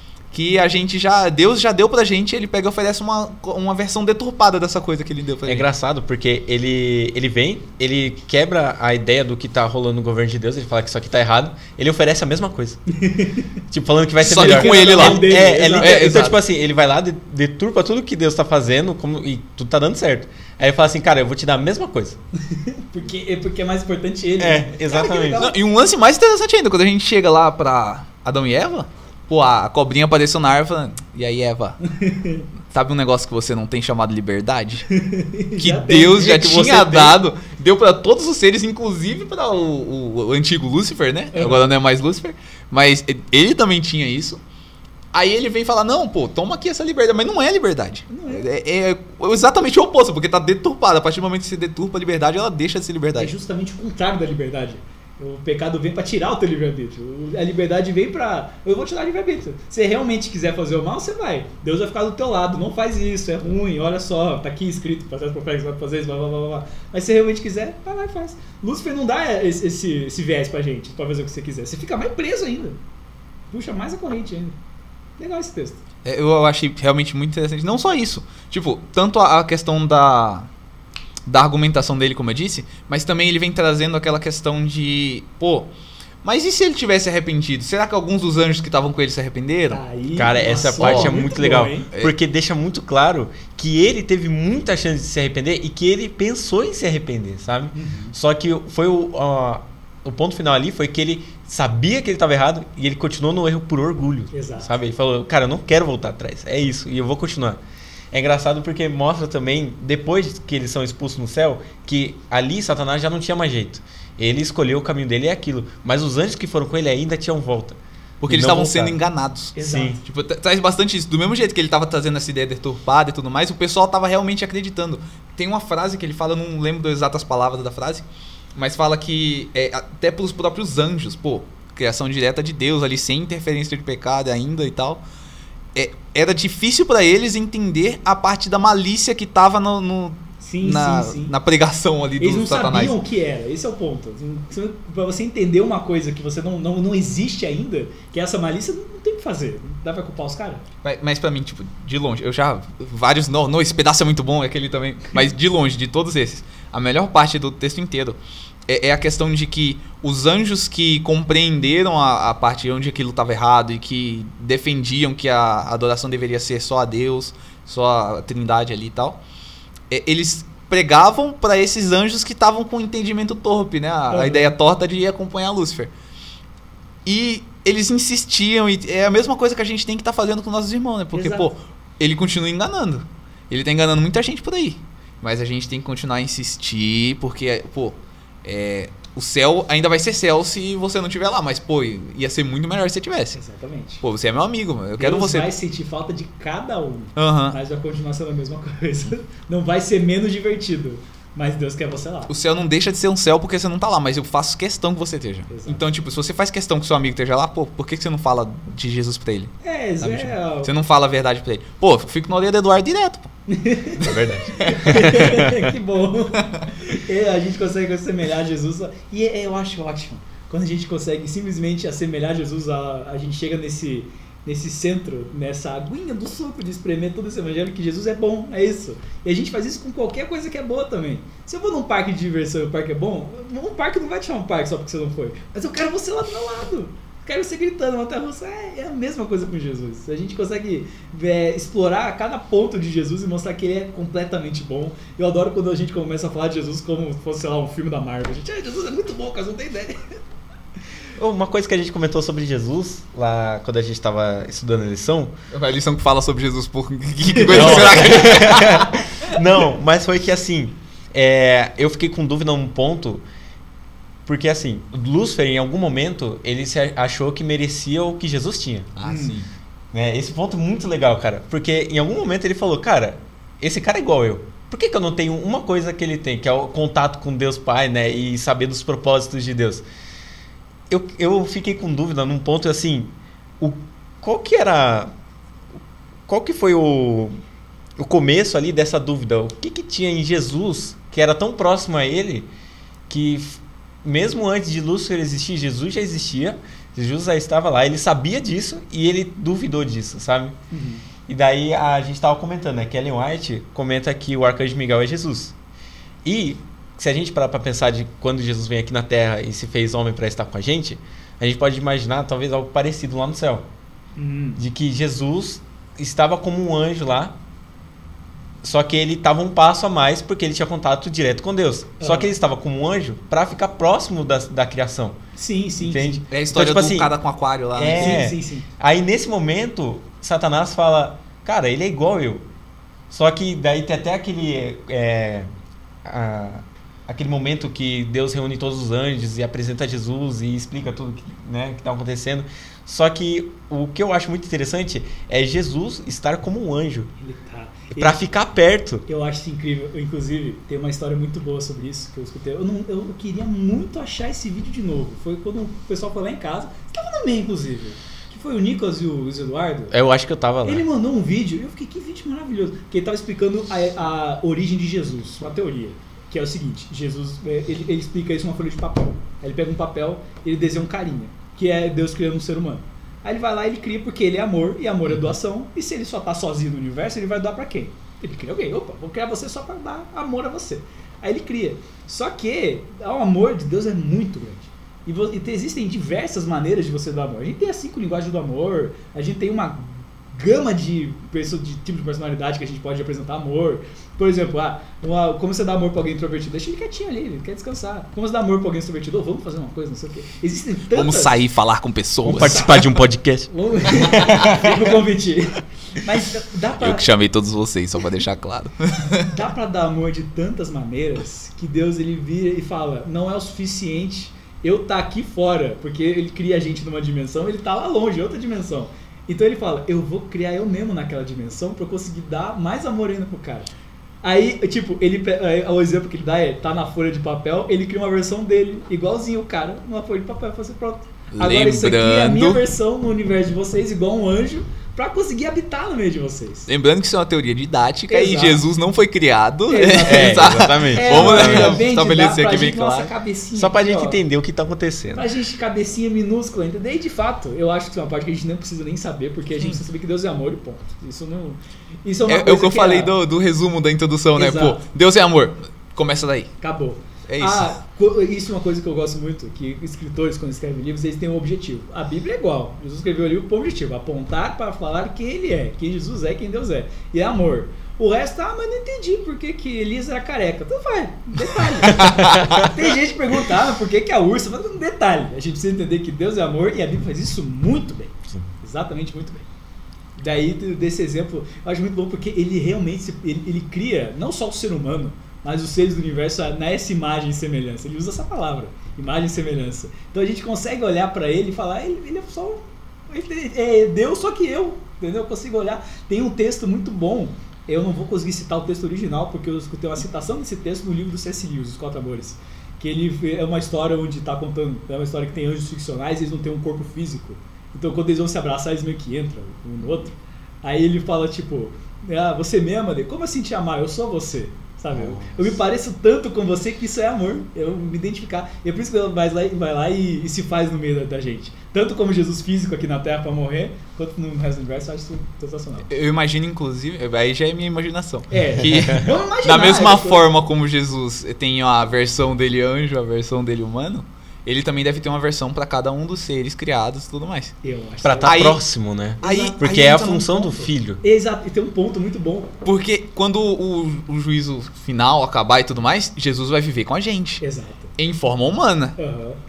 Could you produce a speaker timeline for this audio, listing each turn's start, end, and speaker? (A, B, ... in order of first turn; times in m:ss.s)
0:00.3-0:05.7 A
0:05.4-0:12.8 B
0:12.9-0:13.5 C
0:13.7-0:22.2 B
0:14.2-0:16.1 C
0:14.2-0:16.4 A
0:22.5-0:25.6 C
0:24.4-0:25.4 B
0:25.4-0:31.8 A
0:31.8-0:32.5 C
0:32.7-0:34.9 A
0:34.9-0:36.5 C
0:35.6-0:44.4 A
0:36.2-0:37.2 B
0:41.3-0:41.7 C
0:45.1-0:53.3 A
0:48.1-0:48.4 C
0:53.2-1:12.8 C
1:13.5-1:14.6 C
1:15.2-1:15.8 C
1:16.0-1:20.5 A
1:21.2-1:25.7 A
1:26.2-1:29.8 A
1:29.7-1:31.9 C
1:30.1-1:47.6 B
1:30.8-1:31.4 A
1:37.7-1:38.1 C
1:44.3-1:44.7 C
1:48.1-1:59.0 B
1:58.2-2:08.0 A
1:59.5-2:00.0 C
1:59.6-2:00.0 B
2:08.6-2:15.0 A
2:15.7-2:23.0 A
2:20.4-2:21.3 C
2:22.2-2:30.6 C
2:30.8-2:49.2 A
2:49.9-2:55.9 A
2:54.1-2:54.5 C
2:57.0-3:13.4 A
3:01.1-3:01.5 C
3:13.3-3:14.0 C
3:14.0-3:15.5 A
3:15.0-3:22.3 C
3:17.2-3:17.6 A
3:22.3-3:33.3 A
3:25.5-3:25.8 C
3:29.6-3:30.7 C
3:33.5-4:10.2 C
3:34.0-3:35.7 B
3:34.6-3:35.1 A
4:11.2-4:15.3 B
4:15.5-4:18.9 A
4:17.4-4:18.0 C
4:17.5-4:23.2 B
4:24.2-4:28.9 B
4:29.0-4:29.5 A
4:29.0-4:29.4 C
4:29.9-4:39.8 B
4:40.9-4:45.1 B
4:46.3-4:47.3 B
4:48.0-4:52.5 B
4:53.1-5:00.6 B
5:00.7-5:01.0 C
5:01.3-5:05.6 B
5:06.2-5:13.7 B
5:14.2-5:14.6 C
5:14.6-5:17.4 B
5:18.6-5:25.2 B
5:22.0-5:22.3 C
5:25.4-5:26.2 C
5:25.8-5:27.1 B
5:26.3-5:28.2 A
5:27.7-5:32.4 B
5:27.9-5:28.6 C
5:33.1-5:35.5 B
5:36.0-5:47.1 B
5:47.2-5:48.3 C
5:48.0-5:49.0 B
5:49.1-5:59.9 C
5:59.9-6:00.8 B
6:00.6-6:41.4 C
6:40.9-6:42.7 A
6:42.2-6:44.8 B
6:42.3-6:42.9 C
6:43.5-6:47.1 C
6:46.8-6:49.3 A
6:49.2-7:03.7 C
7:04.2-7:16.7 C
7:11.3-7:12.6 A
7:16.7-7:23.1 A
7:18.1-7:18.6 C
7:19.7-7:24.2 C
7:20.0-7:21.8 B
7:23.5-7:25.3 B
7:25.1-7:33.1 C
7:32.3-7:36.5 A
7:34.4-7:34.8 C
7:36.6-7:59.4 C
7:37.3-7:37.7 A
7:51.9-7:52.5 A
8:00.2-8:45.9 C
8:34.9-8:35.5 B
8:45.9-8:57.6 A
8:48.3-8:50.2 C
8:57.6-8:58.4 C
8:58.0-9:01.0 B
8:58.2-8:58.6 A
8:59.2-9:00.7 A
8:59.2-8:59.5 C
9:01.0-9:02.5 C
9:02.6-9:07.4 A
9:07.4-9:07.9 C
9:08.0-9:09.0 A
9:09.0-9:09.4 C